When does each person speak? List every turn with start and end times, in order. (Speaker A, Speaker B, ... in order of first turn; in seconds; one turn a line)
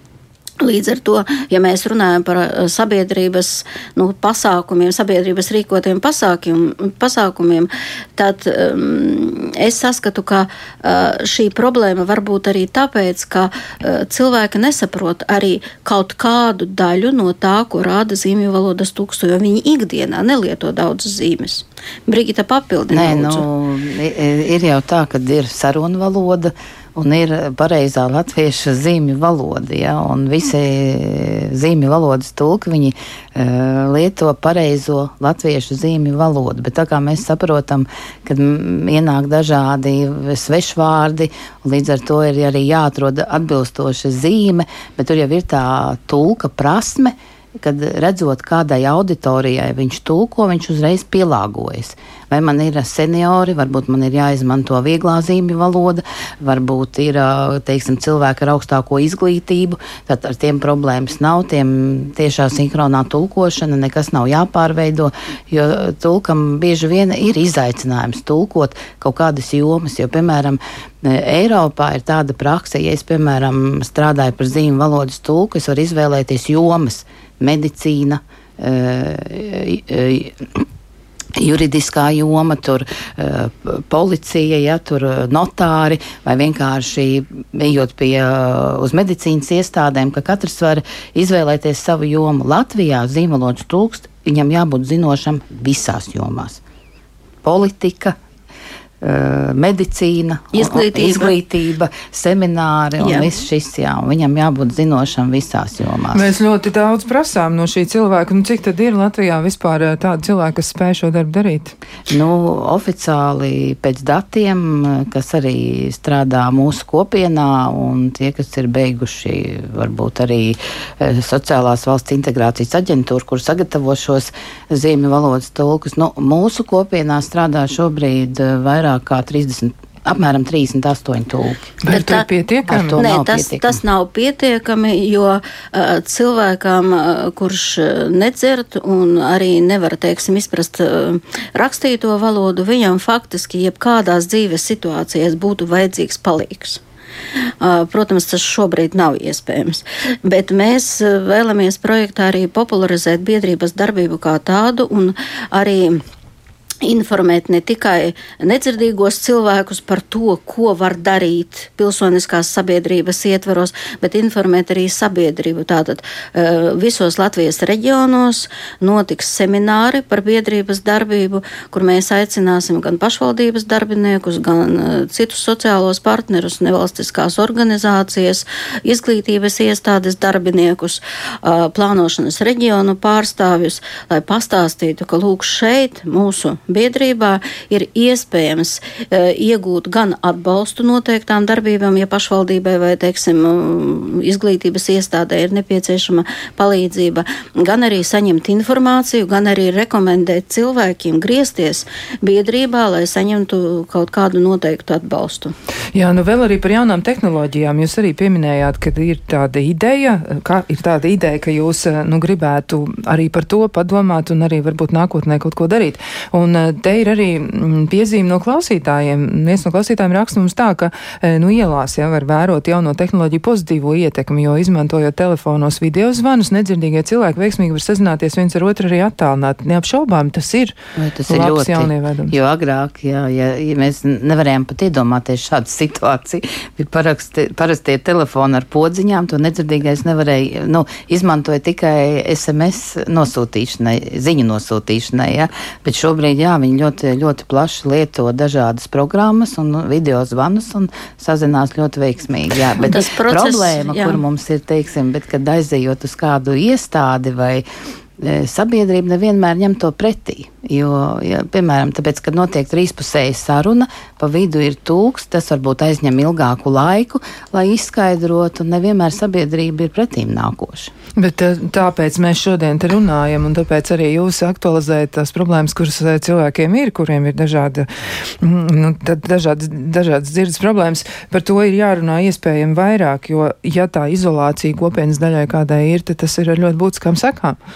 Speaker A: 0.6-23.5
Speaker B: 22.9-80.7
Speaker B: 81.4-96.6
Speaker B: 97.4-98.2
Speaker B: 99.0-106.3
Speaker A: 100.5-101.3
Speaker A: 103.0-103.3
Speaker C: 106.1-111.7
Speaker B: 112.1-131.8
Speaker C: 131.8-133.0
Speaker A: 131.9-132.3
Speaker B: 132.7-133.8
Speaker A: 133.0-146.8
Speaker A: 147.6-156.0
Speaker A: 156.8-205.6
Speaker C: 205.9-230.7
Speaker B: 231.0-257.6
Speaker C: 231.3-232.3
Speaker A: 252.9-254.2
Speaker B: 258.2-270.9
Speaker C: 271.2-277.9
Speaker C: 278.4-287.6